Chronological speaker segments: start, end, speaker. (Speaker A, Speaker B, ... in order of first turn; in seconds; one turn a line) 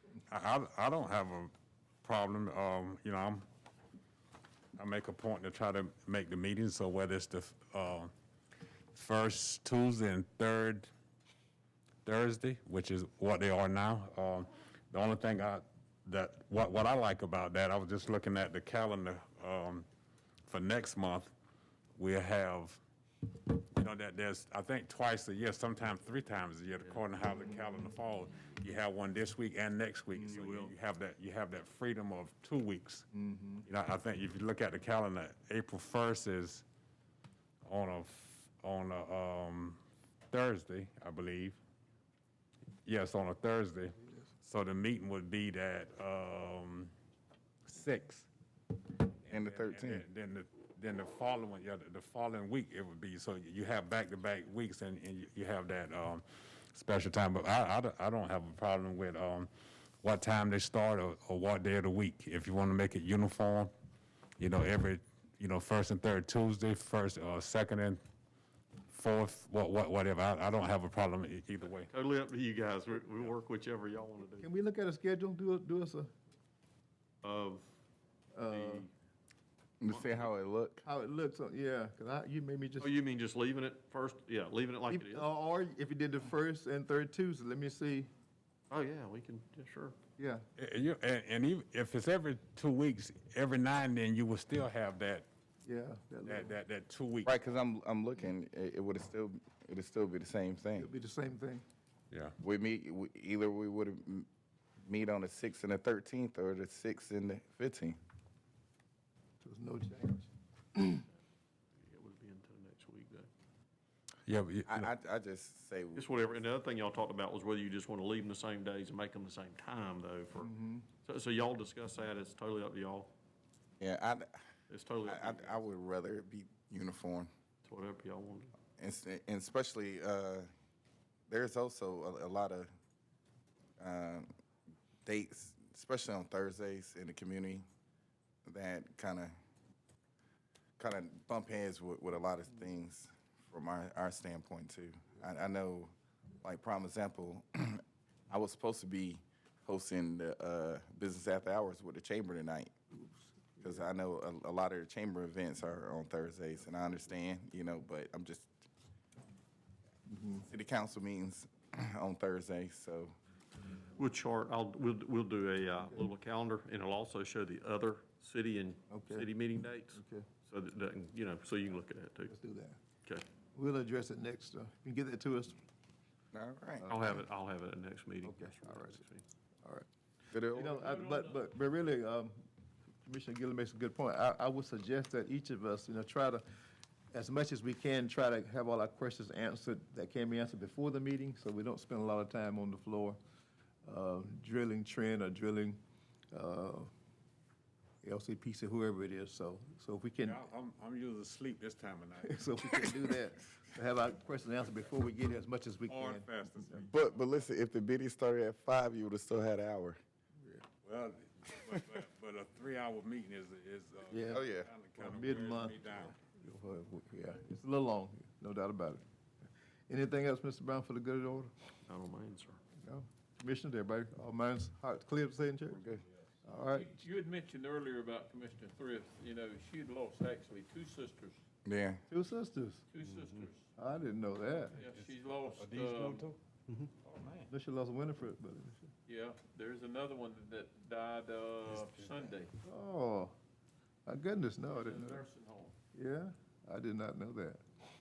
Speaker A: 0.3-1.5
Speaker A: 2.0-3.5
Speaker A: 4.8-8.1
Speaker A: 8.9-10.9
Speaker A: 12.1-19.9
Speaker A: 20.5-21.3
Speaker A: 21.9-22.8
Speaker A: 23.3-33.1
Speaker B: 30.3-30.7
Speaker C: 33.1-33.7
Speaker A: 33.6-36.6
Speaker A: 37.6-41.6
Speaker A: 42.8-46.9
Speaker A: 47.7-48.3
Speaker A: 49.2-59.5
Speaker D: 49.3-50.1
Speaker A: 60.0-63.7
Speaker A: 64.4-68.0
Speaker A: 68.9-71.9
Speaker B: 71.9-74.5
Speaker C: 74.4-76.1
Speaker B: 77.2-77.7
Speaker C: 78.3-78.9
Speaker B: 78.5-78.9
Speaker D: 79.8-80.8
Speaker B: 79.9-80.3
Speaker C: 80.8-82.9
Speaker B: 82.8-85.3
Speaker C: 84.9-88.1
Speaker B: 88.7-90.0
Speaker C: 90.2-90.5
Speaker A: 90.6-95.3
Speaker C: 95.6-96.5
Speaker A: 96.2-97.3
Speaker D: 97.2-100.9
Speaker C: 100.8-101.6
Speaker D: 102.4-104.3
Speaker D: 104.9-108.0
Speaker C: 109.4-111.0
Speaker B: 111.7-113.3
Speaker A: 114.3-114.9
Speaker D: 114.7-116.1
Speaker B: 115.9-123.1
Speaker C: 120.4-120.9
Speaker D: 123.8-124.3
Speaker B: 124.7-125.6
Speaker D: 125.0-127.3
Speaker B: 127.6-128.6
Speaker D: 128.8-130.5
Speaker D: 131.3-132.7
Speaker D: 133.8-134.3
Speaker D: 135.1-137.6
Speaker D: 138.4-139.3
Speaker D: 140.8-152.7
Speaker D: 153.6-158.6
Speaker C: 160.1-160.4
Speaker D: 160.4-163.1
Speaker B: 164.0-172.3
Speaker C: 168.9-169.3
Speaker C: 169.9-170.3
Speaker C: 172.3-172.8
Speaker C: 173.5-175.6
Speaker D: 176.3-176.9
Speaker C: 176.8-177.2
Speaker B: 176.9-179.2
Speaker C: 178.2-179.0
Speaker D: 180.3-180.7
Speaker E: 180.5-181.5
Speaker C: 180.6-182.4
Speaker C: 183.0-186.4
Speaker C: 187.1-193.2
Speaker C: 193.8-195.8
Speaker C: 196.3-196.9
Speaker C: 198.0-200.5
Speaker A: 200.2-202.8
Speaker C: 202.2-206.8
Speaker A: 205.9-207.4
Speaker D: 206.9-210.0
Speaker A: 210.8-216.2
Speaker C: 214.1-214.4
Speaker D: 214.3-214.7
Speaker C: 214.9-219.0
Speaker C: 219.9-221.5
Speaker B: 221.9-222.6
Speaker C: 222.8-225.9
Speaker D: 225.8-226.0
Speaker C: 226.4-227.0
Speaker E: 226.7-231.4
Speaker D: 231.6-232.1
Speaker C: 232.1-232.8
Speaker E: 232.9-233.7
Speaker B: 233.0-233.5
Speaker C: 233.8-234.8
Speaker E: 234.7-236.2
Speaker A: 234.7-236.4
Speaker A: 236.9-237.5
Speaker C: 237.5-238.9
Speaker E: 239.1-242.5
Speaker B: 239.5-239.8
Speaker B: 241.4-242.5
Speaker A: 241.7-242.3
Speaker C: 242.6-243.4
Speaker C: 244.1-245.3
Speaker E: 244.7-245.7
Speaker B: 245.3-245.7
Speaker C: 245.9-247.6